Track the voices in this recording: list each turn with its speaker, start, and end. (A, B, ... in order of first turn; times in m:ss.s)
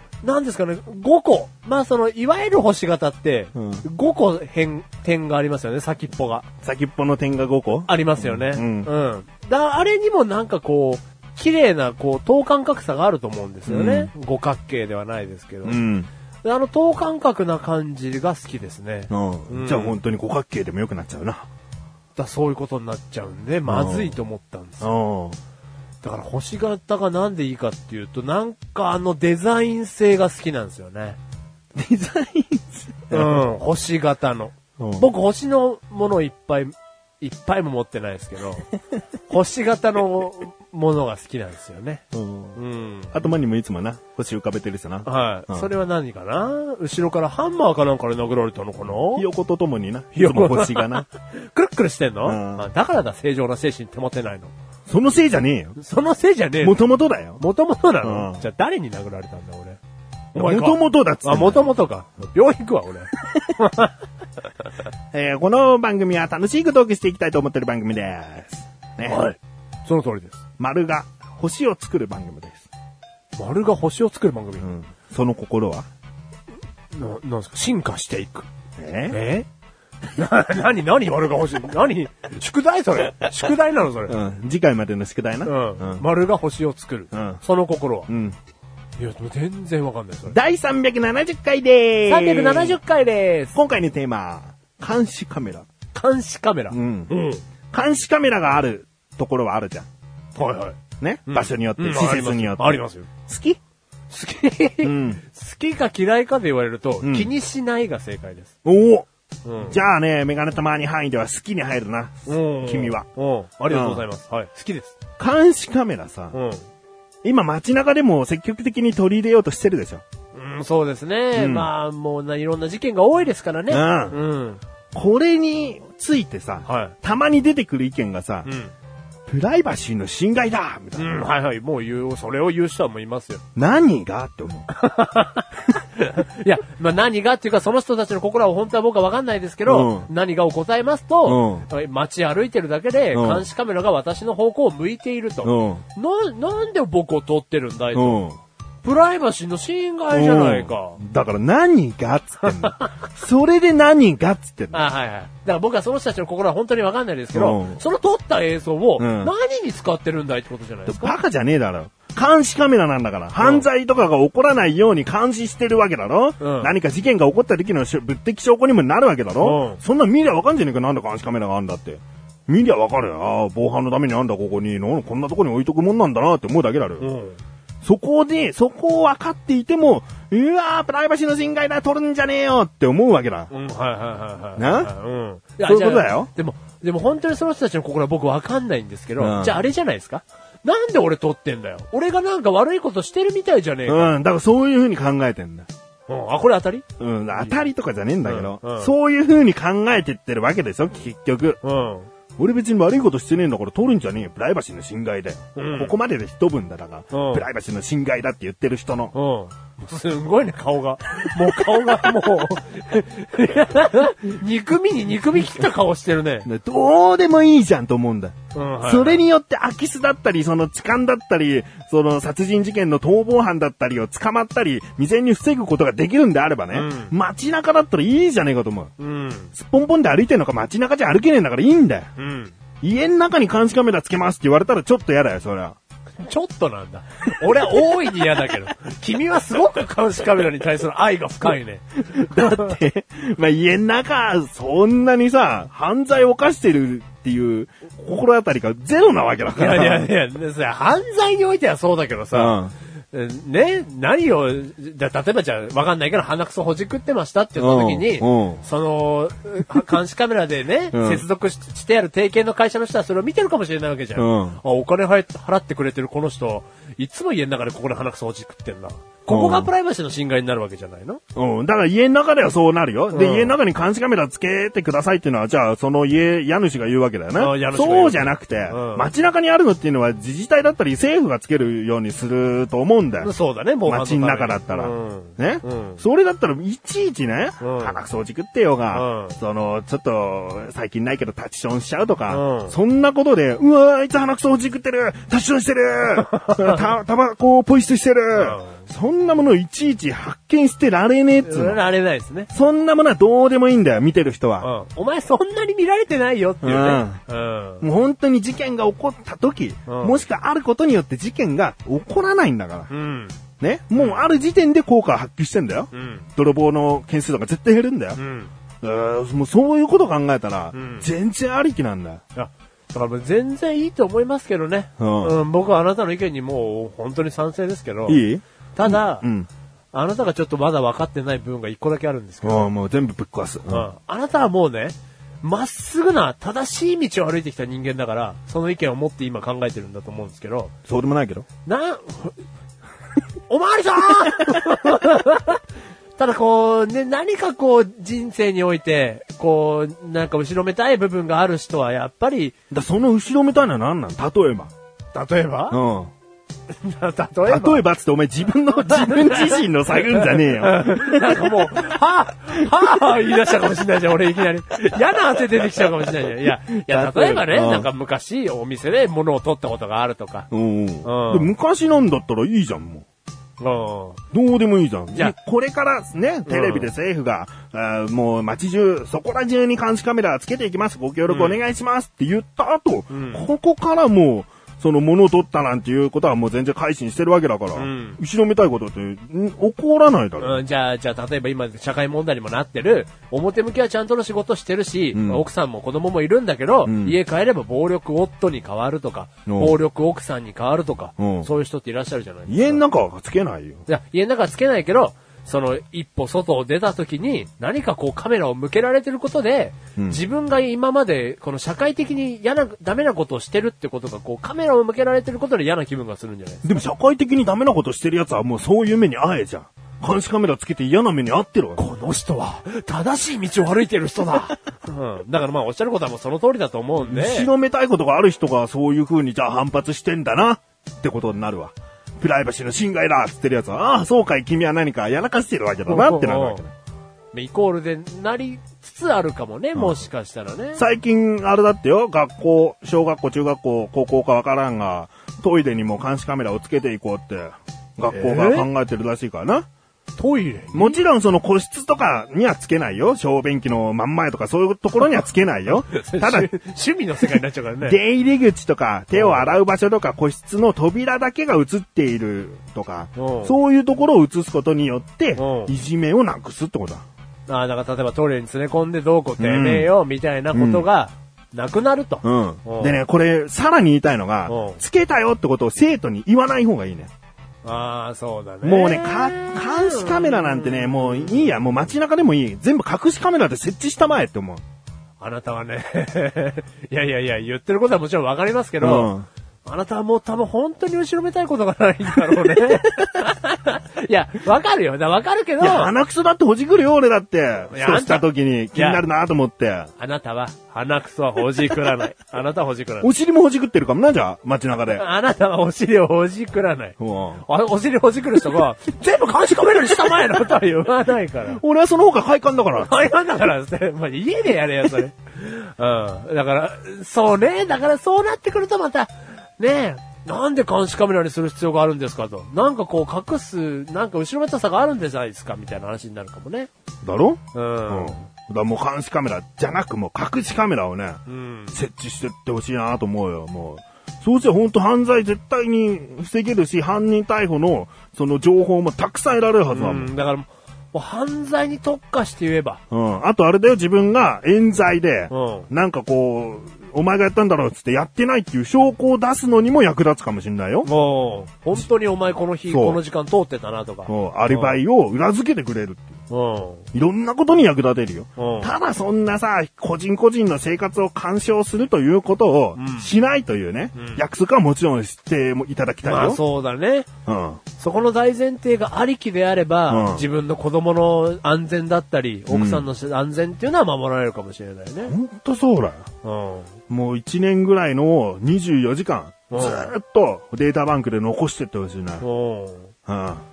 0:00.2-0:06.4 A
0:03.5-0:03.8 B
0:06.6-0:08.9 B
0:07.9-0:15.8 A
0:13.7-0:14.1 B
0:15.6-0:16.1 B
0:16.4-0:20.0 A
0:19.1-0:21.5 B
0:22.2-0:24.9 A
0:23.7-0:24.2 B
0:24.8-0:25.4 B
0:26.0-0:31.2 A
0:31.8-0:33.5 B
0:33.1-0:38.7 A
0:34.8-0:35.1 B
0:39.3-0:42.0 A
0:42.1-0:42.6 B
0:42.5-0:43.3 A
0:43.1-0:45.7 B
0:45.0-0:49.2 A
0:49.1-0:51.1 B
0:50.1-0:54.5 A
0:52.2-0:52.7 B
0:54.9-0:55.8 B
0:55.8-0:56.8 A
0:56.6-0:57.4 B
0:57.4-0:59.8 A
0:58.0-0:58.4 B
1:00.3-1:01.7 B
1:00.3-1:03.9 A
1:05.1-1:09.3 B
1:09.0-1:10.4 A
1:10.6-1:12.7 B
1:13.4-1:14.7 A
1:14.6-1:15.9 B
1:16.9-1:18.5 A
1:18.8-1:19.2 B
1:19.1-1:19.5 A
1:20.2-1:24.2 A
1:24.1-1:26.0 B
1:25.4-1:28.1 A
1:27.1-1:27.4 B
1:28.1-1:28.4 B
1:29.0-1:30.4 A
1:30.3-1:32.8 B
1:32.1-1:33.5 A
1:33.5-1:35.7 B
1:35.9-1:37.4 A
1:36.7-1:37.1 B
1:37.7-1:39.9 B
1:40.3-1:43.1 A
1:41.0-1:43.6 B
1:44.1-1:48.5 A
1:44.8-1:45.2 B
1:47.0-1:47.3 B
1:48.6-1:49.1 B
1:49.4-1:49.8 A
1:49.6-1:53.1 B
1:52.3-1:54.9 A
1:53.7-1:54.0 B
1:55.2-1:56.4 B
1:56.3-1:56.6 A
1:57.2-2:00.0 B
2:00.3-2:04.6 A
2:01.3-2:01.7 B
2:03.7-2:04.2 B
2:04.9-2:08.5 B
2:06.6-2:06.9 A
2:08.4-2:08.7 A
2:09.3-2:11.3 B
2:11.0-2:13.4 A
2:13.6-2:14.7 B
2:14.7-2:28.2 A
2:19.6-2:20.1 B
2:21.2-2:21.6 B
2:23.1-2:23.4 B
2:25.4-2:25.8 B
2:27.9-2:28.4 B
2:28.8-2:31.0 A
2:30.1-2:34.8 B
2:32.5-2:32.9 A
2:34.7-2:41.2 A
2:37.3-2:37.8 B
2:39.0-2:39.3 B
2:40.9-2:57.1 B
2:43.4-2:43.6 A
2:46.4-2:46.7 A
2:49.4-2:49.8 A
2:57.0-2:57.4 A
2:57.8-3:03.5 B
3:03.5-3:14.1 A
3:04.6-3:04.9 B
3:05.6-3:06.3 B
3:09.2-3:09.6 B
3:13.9-3:15.7 B
3:16.1-3:16.8 A
3:17.0-3:21.6 B
3:17.4-3:17.6 A
3:18.2-3:18.9 A
3:21.6-3:22.1 A
3:22.4-3:29.1 B
3:25.6-3:25.9 A
3:27.1-3:27.4 A
3:29.1-3:36.5 A
3:31.7-3:31.9 B
3:36.4-3:48.9 B
3:38.5-3:39.2 A
3:46.7-3:47.1 A
3:49.0-3:49.5 A
3:49.5-3:52.1 B
3:52.2-3:52.5 A
3:52.8-3:55.8 B
3:56.2-4:02.7 A
3:57.6-3:58.3 B
4:02.0-4:10.1 B
4:09.6-4:12.6 A
4:12.3-4:12.7 B
4:13.1-4:31.2 A
4:17.6-4:18.6 B
4:20.9-4:21.2 B
4:24.2-4:24.6 B
4:29.3-4:29.7 B
4:31.3-4:43.3 B
4:33.1-4:33.6 A
4:37.3-4:39.1 A
4:43.2-4:46.0 A
4:43.9-5:01.8 B
4:47.6-4:48.0 A
4:48.9-4:49.4 A
4:52.3-4:52.8 A
4:56.3-4:56.8 A
4:58.3-4:58.8 A
5:01.4-5:02.5 A
5:02.5-5:04.7 B
5:04.6-5:07.9 A
5:06.6-5:07.2 B
5:07.8-5:12.9 B
5:09.9-5:10.2 A
5:12.9-5:13.4 A
5:13.6-5:18.2 B
5:13.9-5:14.3 A
5:15.9-5:16.3 A
5:18.1-5:18.5 A
5:18.8-5:22.2 B
5:20.7-5:21.1 A
5:22.3-5:28.2 A
5:25.0-5:25.4 B
5:28.1-5:29.5 B
5:28.8-5:29.2 A
5:29.9-5:32.7 A
5:32.4-5:33.9 B
5:33.7-5:40.7 A
5:40.9-5:41.4 B
5:41.6-5:42.4 A
5:43.5-5:45.6 A
5:46.2-5:52.5 A
5:52.7-5:54.7 B
5:55.1-5:55.8 A
5:55.7-5:56.1 B
5:56.7-5:57.8 A
5:57.4-6:01.8 B
5:58.9-6:10.5 A
6:06.4-6:07.9 B
6:10.5-6:13.0 B
6:11.0-6:11.5 A
6:13.6-6:14.2 A
6:14.3-6:30.6 B
6:16.4-6:16.9 A
6:21.3-6:21.6 A
6:23.1-6:23.5 A
6:27.7-6:28.2 A
6:30.4-6:42.8 A
6:35.1-6:35.4 B
6:36.8-6:37.2 B
6:39.5-6:39.8 B
6:41.2-6:41.5 B
6:42.5-6:43.8 B
6:43.9-6:56.7 A
6:50.0-6:50.2 B
6:56.6-7:01.8 B
7:01.8-7:07.5 A
7:07.0-7:16.7 B
7:15.9-7:16.6 A
7:17.3-7:20.8 A
7:19.7-7:20.0 B
7:20.8-7:29.7 B
7:28.1-7:28.7 A
7:30.2-7:31.0 A
7:30.7-7:36.5 B
7:35.9-7:38.0 A
7:37.8-7:47.0 B
7:39.1-7:39.5 A
7:43.2-7:43.6 A
7:45.4-7:45.7 A
7:47.5-7:53.0 A
7:49.4-7:49.9 B
7:50.5-7:50.8 B
7:52.2-7:57.1 B
7:54.5-7:54.8 A
7:57.6-8:01.7 A
7:58.6-8:04.6 B
8:05.2-8:09.1 A
8:08.8-8:09.3 B
8:09.6-8:15.9 A
8:15.6-8:19.9 B
8:17.7-8:19.0 A
8:20.0-8:23.1 A
8:23.0-8:25.0 B
8:24.9-8:31.6 A
8:27.0-8:27.4 B
8:31.5-8:32.9 B
8:32.8-8:46.7 A
8:47.0-8:51.2 B
8:47.5-8:48.2 A
8:51.3-8:51.8 A
8:51.7-9:00.1 B
8:59.7-9:02.8 A
9:02.9-9:10.9 B
9:05.3-9:05.7 A
9:10.8-9:14.8 A
9:12.7-9:13.0 B
9:14.1-9:16.2 B
9:16.3-9:16.9 A
9:16.9-9:26.4 B
9:18.4-9:18.7 A
9:22.8-9:23.1 A
9:23.9-9:24.2 A
9:26.0-9:27.1 A
9:27.3-9:27.6 B
9:27.8-9:35.2 A
9:29.9-9:30.3 B
9:32.5-9:32.9 B
9:35.1-9:36.1 B
9:36.2-9:36.7 A
9:36.9-9:42.2 B
9:39.5-9:39.9 A
9:42.2-9:42.9 A
9:43.1-9:43.4 B